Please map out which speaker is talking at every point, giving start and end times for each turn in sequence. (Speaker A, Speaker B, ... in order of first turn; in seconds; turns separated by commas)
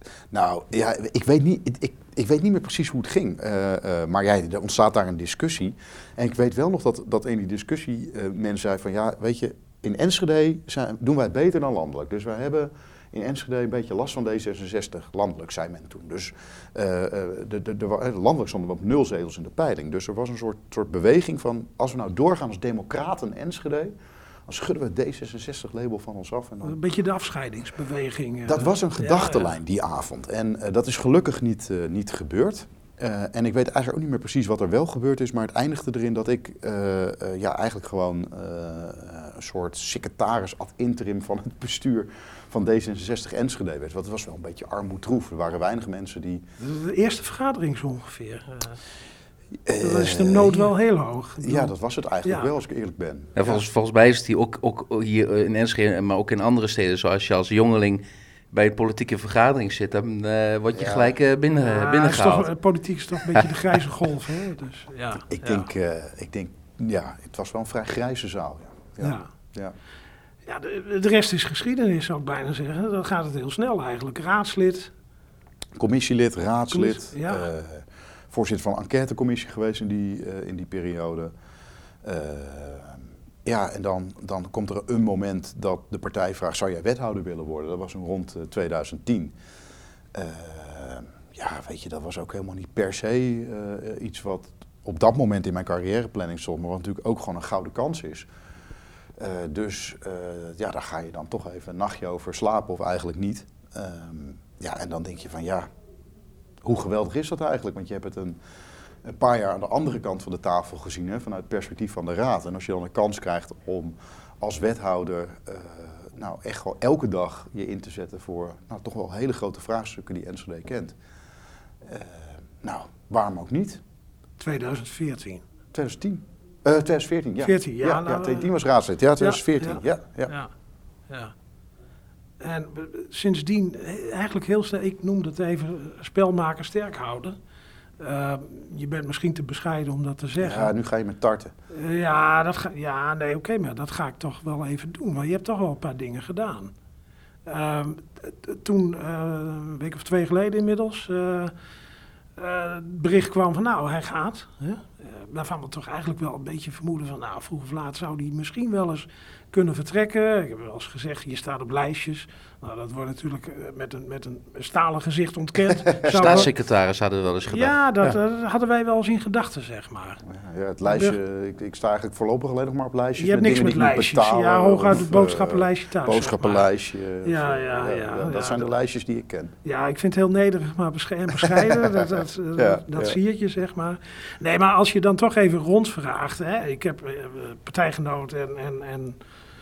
Speaker A: 0.3-23.9, Speaker A: 24.5-26.8, Speaker B: 26.6-29.5, Speaker A: 28.4-46.4, Speaker B: 46.6-48.8, Speaker A: 49.6-50.7, Speaker B: 49.8-51.7, Speaker A: 51.4-53.3, Speaker B: 52.2-52.5, Speaker C: 53.4-62.5, Speaker A: 60.7-61.1, Speaker B: 61.6-65.6, Speaker C: 63.2-63.5, Speaker A: 65.3-69.7, Speaker B: 69.0-69.3, Speaker B: 70.4-74.9, Speaker A: 75.8-81.3, Speaker B: 76.7-77.5, Speaker A: 82.0-89.3, Speaker A: 90.1-98.3, Speaker A: 99.2-105.7, Speaker A: 106.6-108.4, Speaker A: 109.0-121.0, Speaker A: 121.8-123.8, Speaker B: 124.4-125.4, Speaker A: 125.7-130.3, Speaker B: 127.4-128.5, Speaker B: 129.2-130.5, Speaker B: 131.1-131.3, Speaker B: 132.4-137.4, Speaker B: 138.0-140.7, Speaker A: 140.4-141.5, Speaker B: 141.7-146.7, Speaker B: 147.4-151.5, Speaker B: 152.3-166.5, Speaker A: 165.8-166.5, Speaker C: 166.1-168.2, Speaker B: 167.5-170.2, Speaker A: 170.2-179.5, Speaker B: 170.8-171.2, Speaker B: 173.2-176.7, Speaker B: 177.2-178.7, Speaker B: 179.6-189.2, Speaker A: 181.4-182.0, Speaker A: 182.6-183.2